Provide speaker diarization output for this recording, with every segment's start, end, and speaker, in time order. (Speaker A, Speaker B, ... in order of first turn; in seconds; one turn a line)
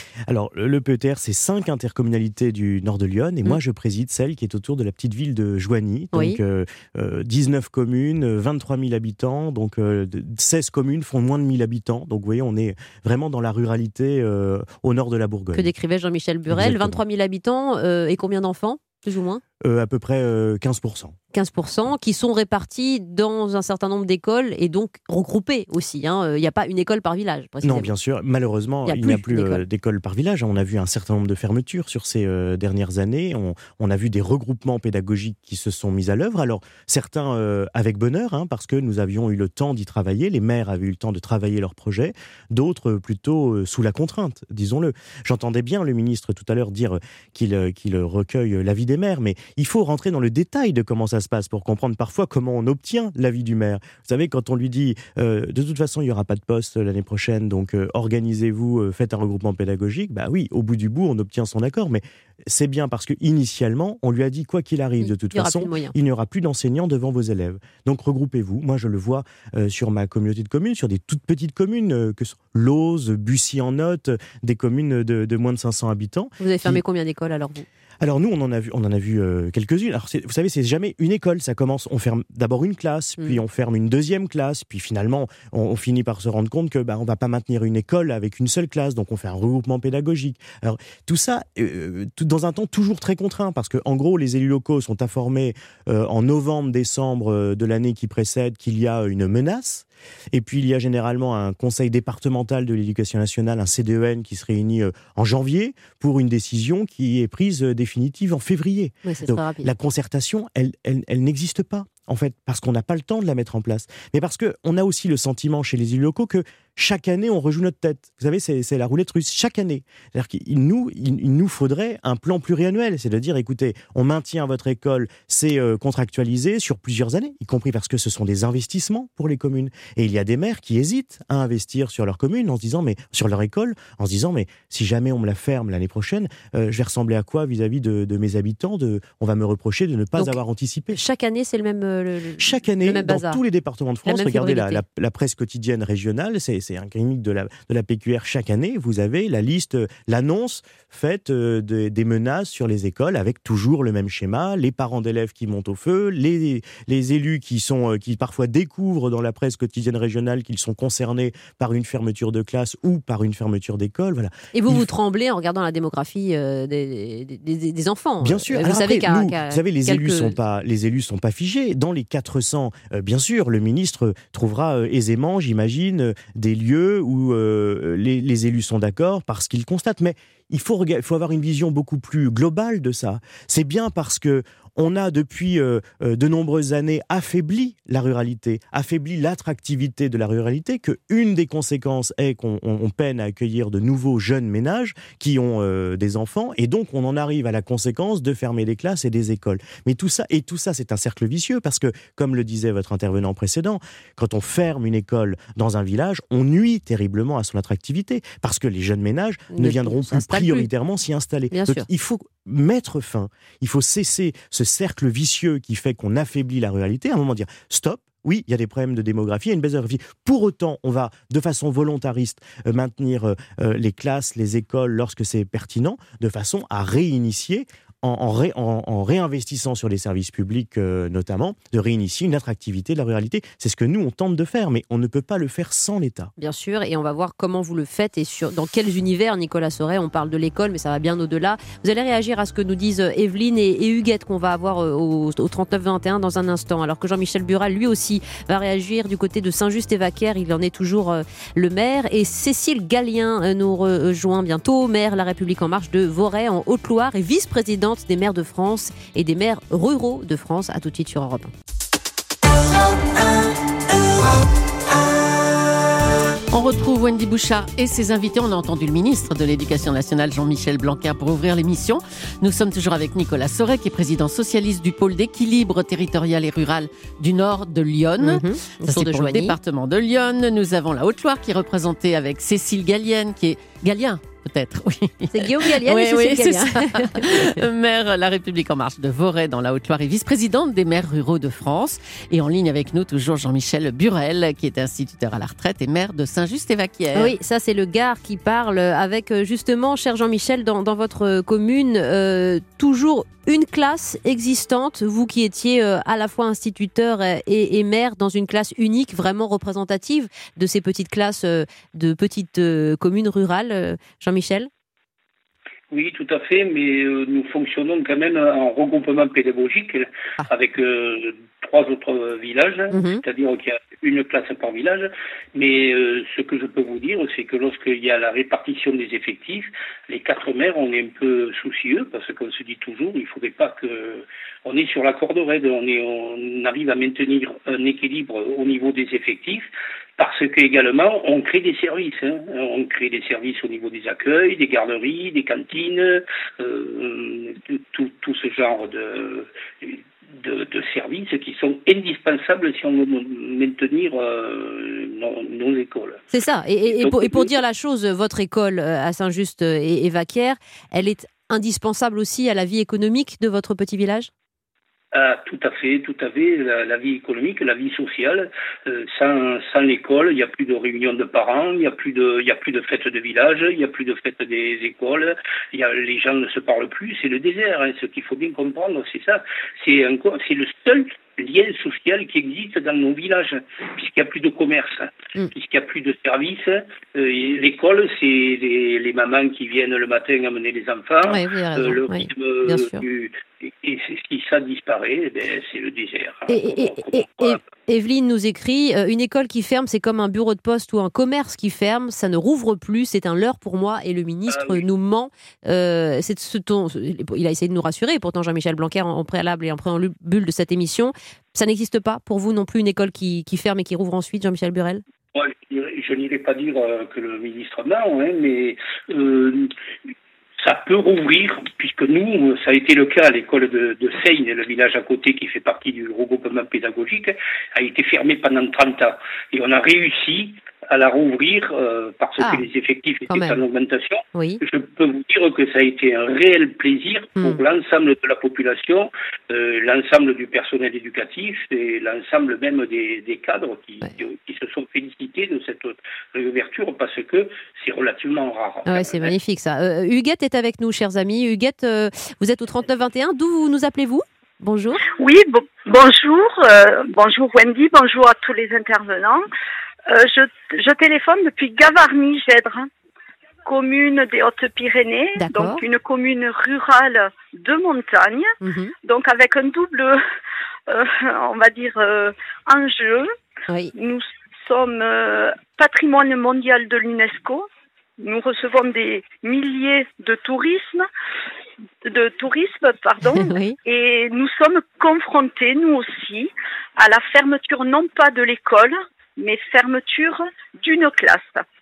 Speaker A: 0.3-15.7
Speaker B: 6.1-6.4
Speaker B: 15.5-19.4
Speaker A: 16.5-17.0
Speaker A: 19.6-21.1
Speaker B: 21.3-27.9
Speaker A: 27.6-76.8
Speaker B: 28.9-29.6
Speaker B: 65.0-65.9
Speaker B: 76.4-77.7
Speaker A: 78.0-141.0
Speaker B: 109.0-109.7
Speaker B: 140.9-143.4
Speaker A: 142.4-164.8
Speaker B: 144.1-144.8
Speaker B: 164.5-170.3
Speaker A: 168.2-236.3
Speaker B: 209.5-210.7
Speaker B: 211.5-211.8
Speaker B: 236.4-261.5
Speaker C: 266.5-297.3
Speaker B: 278.2-279.6
Speaker B: 285.3-287.4
Speaker B: 297.1-314.7
Speaker D: 315.9-339.6
Speaker B: 322.9-323.2
Speaker D: 340.2-356.2
Speaker B: 356.3-364.3
Speaker D: 356.9-357.5
Speaker D: 365.1-397.6
Speaker B: 391.3-393.0
Speaker B: 396.5-415.0
Speaker D: 404.5-404.8
Speaker D: 415.3-419.7
Speaker D: 420.6-449.3
Speaker B: 432.4-432.6
Speaker B: 433.3-433.6
Speaker B: 434.3-434.6
Speaker B: 448.9-455.0
Speaker E: 455.1-459.4
Speaker E: 460.1-462.9
Speaker E: 463.6-468.5
Speaker B: 465.4-465.8
Speaker B: 468.6-468.9
Speaker E: 469.0-470.2
Speaker E: 470.9-473.3
Speaker E: 473.9-477.7
Speaker E: 478.2-481.1
Speaker E: 482.0-491.6
Speaker B: 483.3-483.8